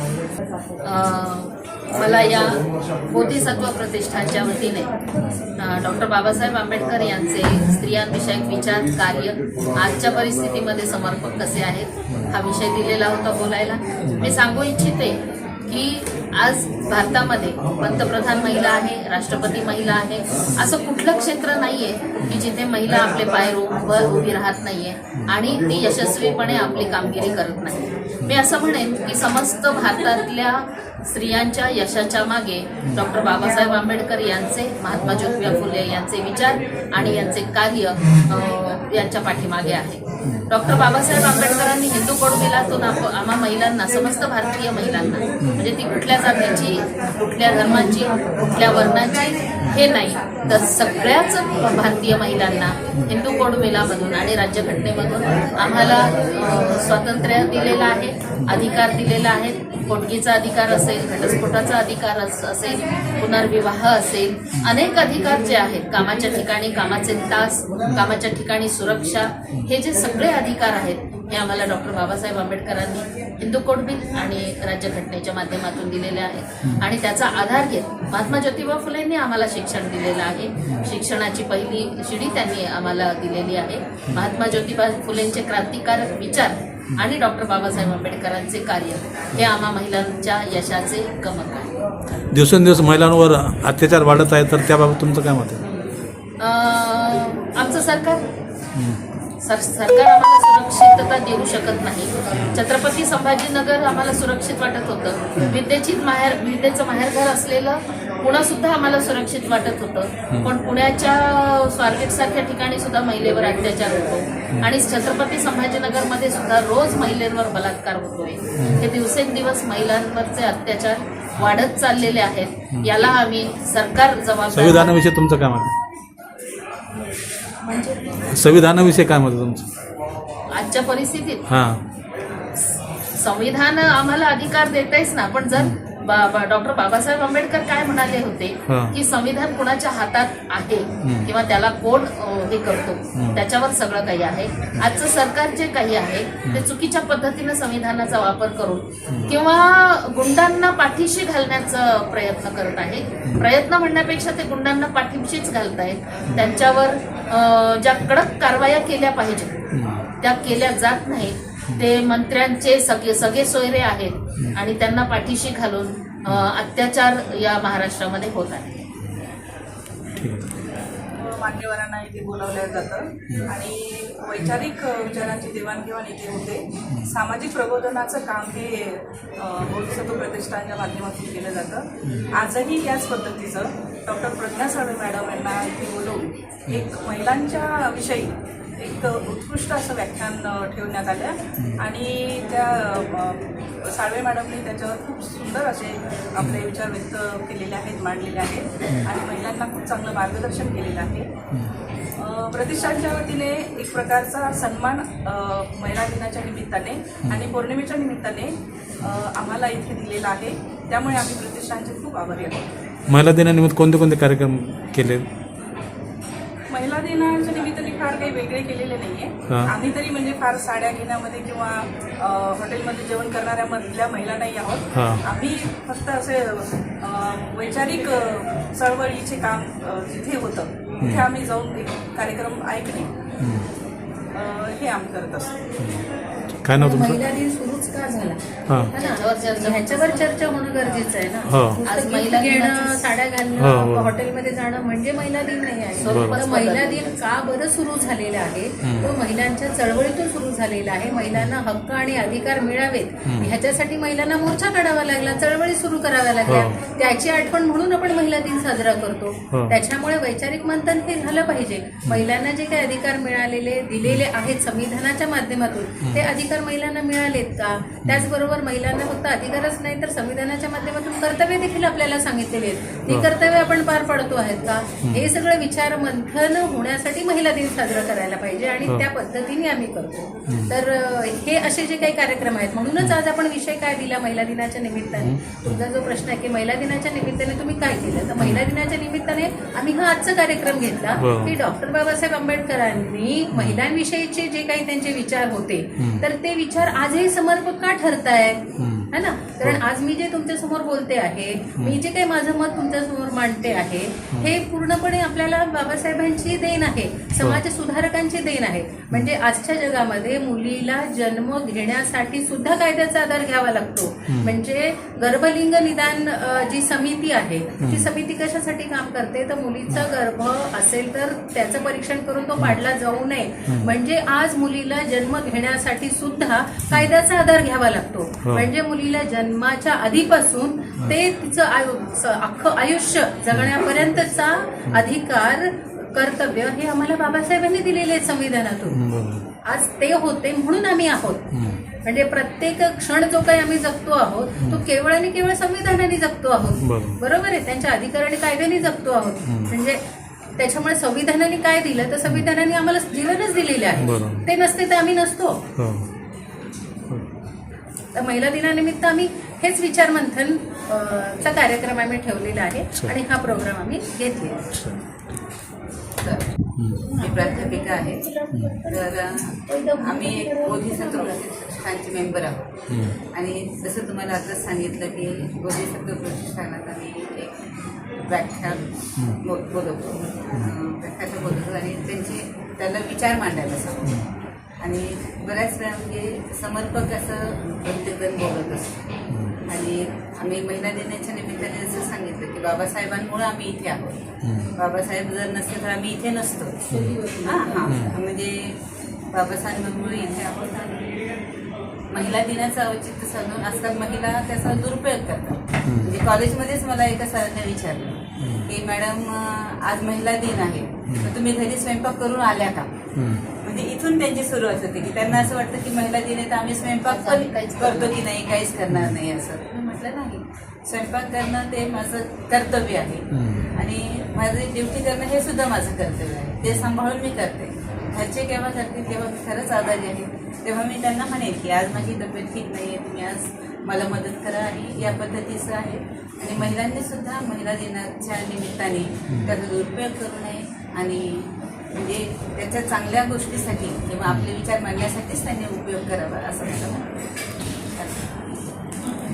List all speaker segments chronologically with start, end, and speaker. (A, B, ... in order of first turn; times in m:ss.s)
0:00.8-0:04.9 A
0:05.2-0:05.4 B
0:05.6-1:31.7 A
0:14.0-0:14.3 B
1:32.3-1:35.6 B
1:36.4-1:38.2 A
1:38.7-1:39.0 B
1:39.4-2:04.9 A
1:42.3-1:42.6 B
1:58.6-1:58.8 B
2:04.5-2:05.7 B
2:08.2-2:09.7 B
2:10.5-2:11.4 A
2:11.5-2:11.8 B
2:13.2-2:39.6 A
2:18.7-2:19.0 B
2:21.0-2:21.3 B
2:23.2-2:23.4 B
2:29.1-2:29.3 B
2:39.7-2:40.0 B
2:40.2-2:48.8 A
2:50.2-2:50.5 B
2:51.2-3:21.3 C
3:02.0-3:02.3 B
3:11.6-3:11.8 B
3:22.2-3:32.7 C
3:27.2-3:27.5 B
3:33.1-3:35.2 B
3:36.7-3:53.1 C
3:44.9-3:45.2 B
3:51.0-3:51.3 B
3:53.4-3:53.7 B
3:54.3-3:55.5 C
3:55.8-3:56.1 B
3:56.6-3:57.2 B
3:56.8-3:58.4 D
3:58.9-5:39.0 D
3:58.9-4:00.5 A
4:01.5-4:01.8 B
4:01.9-4:03.0 A
4:03.6-4:04.1 B
4:06.0-4:06.4 B
4:06.0-4:07.2 A
4:08.8-4:09.1 B
4:16.5-4:16.8 B
4:40.5-4:40.7 B
4:45.2-4:45.8 B
4:48.4-4:48.7 B
4:51.2-4:51.5 B
4:53.5-4:53.8 B
4:58.8-4:59.1 B
5:14.3-5:14.5 B
5:17.8-5:18.1 B
5:28.4-5:28.7 B
5:38.9-5:39.4 B
5:39.6-5:41.4 D
5:41.5-5:41.8 B
5:42.0-5:50.0 D
5:46.8-5:47.2 B
5:49.4-5:49.7 B
5:50.6-5:55.6 D
5:54.0-5:54.5 B
5:55.8-5:56.1 B
5:58.1-6:04.6 D
6:04.7-6:05.0 B
6:06.2-6:06.5 E
6:06.8-6:07.0 B
6:07.2-6:08.3 E
6:08.8-6:12.7 E
6:12.9-6:13.2 B
6:13.3-6:17.6 E
6:18.2-6:18.8 E
6:19.4-6:24.2 E
6:24.8-6:29.0 E
6:29.3-6:29.6 B
6:29.7-6:34.2 E
6:34.4-6:34.7 B
6:34.8-6:38.8 E
6:36.9-6:37.2 B
6:37.9-6:38.2 B
6:39.3-6:41.2 E
6:42.1-6:52.9 E
6:45.8-6:46.2 B
6:48.4-6:48.7 B
6:53.2-6:53.4 B
6:53.6-7:27.1 E
6:57.0-6:58.2 A
6:58.9-6:59.2 B
7:03.3-7:03.7 B
7:06.6-7:06.9 B
7:28.0-7:28.4 E